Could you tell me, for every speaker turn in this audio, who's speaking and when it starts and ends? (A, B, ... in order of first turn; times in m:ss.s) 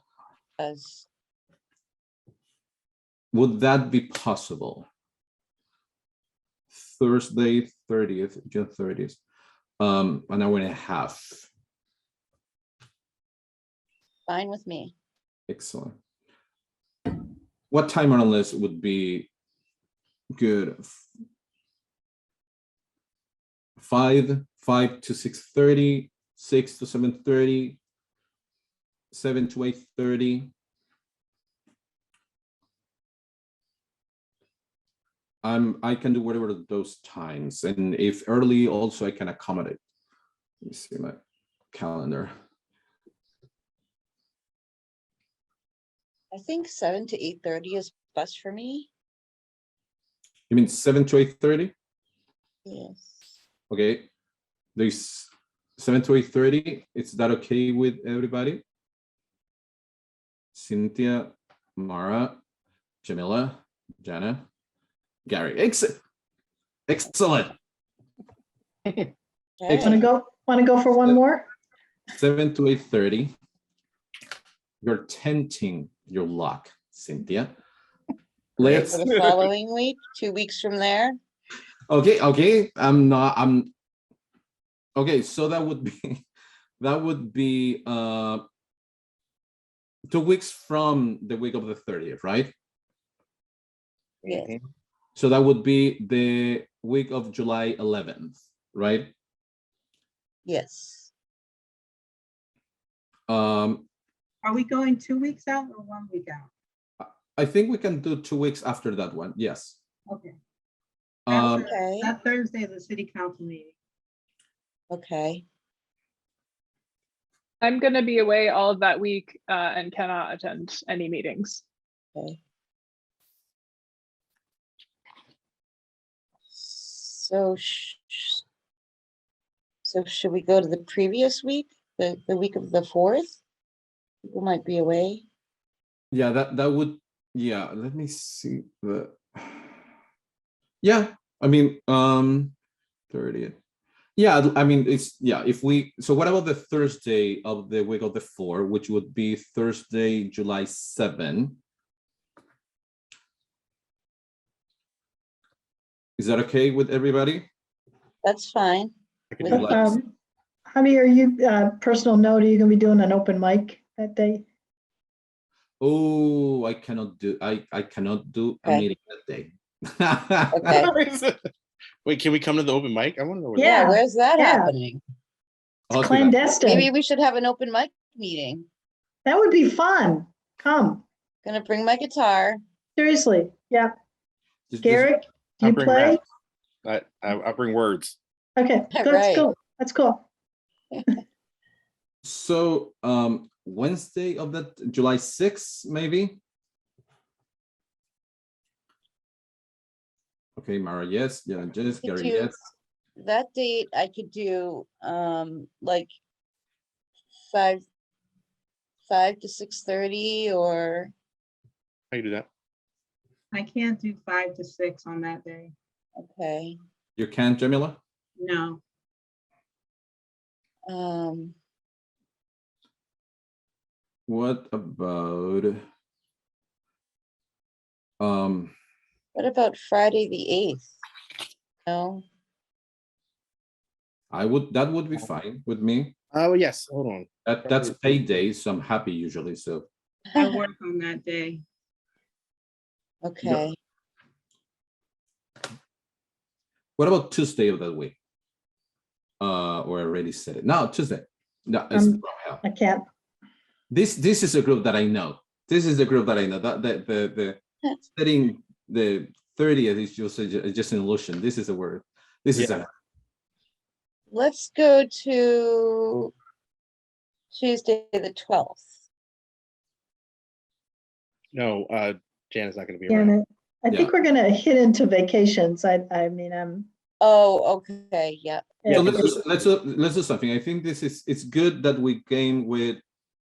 0:00.6-0:01.1 A
0:03.3-0:04.8 B
0:06.7-0:09.2 B
0:09.8-0:11.5 B
0:14.2-0:14.9 A
0:15.5-0:16.0 B
0:17.7-0:19.3 B
0:20.4-0:21.0 B
0:23.8-0:27.8 B
0:29.1-0:30.5 B
0:35.4-0:39.8 B
0:40.6-0:41.2 B
0:41.7-0:42.3 B
0:46.3-0:48.9 A
0:50.5-0:51.7 B
0:52.6-0:53.4 A
0:53.7-0:54.1 B
0:54.7-0:58.6 B
1:00.5-1:02.4 B
1:03.0-1:04.4 B
1:05.2-1:06.0 B
1:06.9-1:07.5 B
1:09.6-1:10.1 A
1:09.7-1:11.4 C
1:12.1-1:13.3 B
1:14.8-1:17.5 B
1:18.6-1:19.0 B
1:18.6-1:21.2 A
1:21.9-1:23.7 B
1:25.0-1:26.2 B
1:26.8-1:28.4 B
1:30.1-1:32.5 B
1:34.2-1:34.5 A
1:34.2-1:34.6 D
1:35.1-1:39.1 B
1:40.4-1:41.1 A
1:43.3-1:43.8 B
1:44.4-1:46.5 E
1:47.0-1:49.8 B
1:51.3-1:51.6 B
1:51.3-1:53.7 E
1:51.6-1:52.1 A
1:54.9-1:55.4 A
1:57.6-2:01.6 F
2:06.5-2:08.4 A
2:09.8-2:13.4 A
2:14.2-2:15.2 A
2:16.1-2:19.7 B
2:20.8-2:22.5 B
2:23.1-2:23.6 B
2:24.2-2:31.6 B
2:36.2-2:37.4 B
2:38.2-2:39.8 A
2:39.5-2:40.0 B
2:39.5-2:40.1 C
2:40.7-2:44.4 C
2:45.8-2:50.8 B
2:50.5-2:50.9 A
2:50.8-2:51.4 D
2:52.0-2:53.7 D
2:53.5-2:54.7 C
2:53.6-2:55.0 A
2:55.9-2:56.4 B
2:55.9-2:56.9 C
2:56.6-2:58.7 A
2:59.2-3:01.0 C
3:01.4-3:02.6 A
3:03.0-3:04.0 C
3:04.7-3:05.1 B
3:04.8-3:06.2 C
3:05.6-3:06.2 D
3:06.8-3:08.2 D
3:08.6-3:10.2 C
3:08.9-3:09.5 A
3:12.2-3:16.4 B
3:20.6-3:22.6 B
3:22.0-3:22.5 A
3:23.2-3:26.1 A
3:27.5-3:27.8 A
3:29.1-3:31.1 A
3:32.1-3:32.5 D
3:33.5-3:35.7 E
3:36.2-3:36.8 A
3:37.2-3:38.0 B
3:38.4-3:38.8 E
3:40.9-3:41.6 A
3:44.3-3:45.8 B
3:48.2-3:48.7 B
3:49.3-3:51.0 A
3:51.8-3:52.2 A
3:54.3-3:56.1 B
3:56.3-3:58.2 D
3:57.4-3:59.8 B
4:00.5-4:01.6 E
4:03.2-4:03.8 A
4:07.0-4:08.2 B
4:09.4-4:12.6 B
4:11.9-4:13.0 C
4:13.9-4:22.9 B
4:24.3-4:26.3 A
4:27.5-4:28.9 A
4:31.5-4:33.3 D
4:33.1-4:36.9 C
4:37.2-4:38.7 A
4:38.8-4:39.3 C
4:38.9-4:43.0 B
4:39.0-4:39.3 D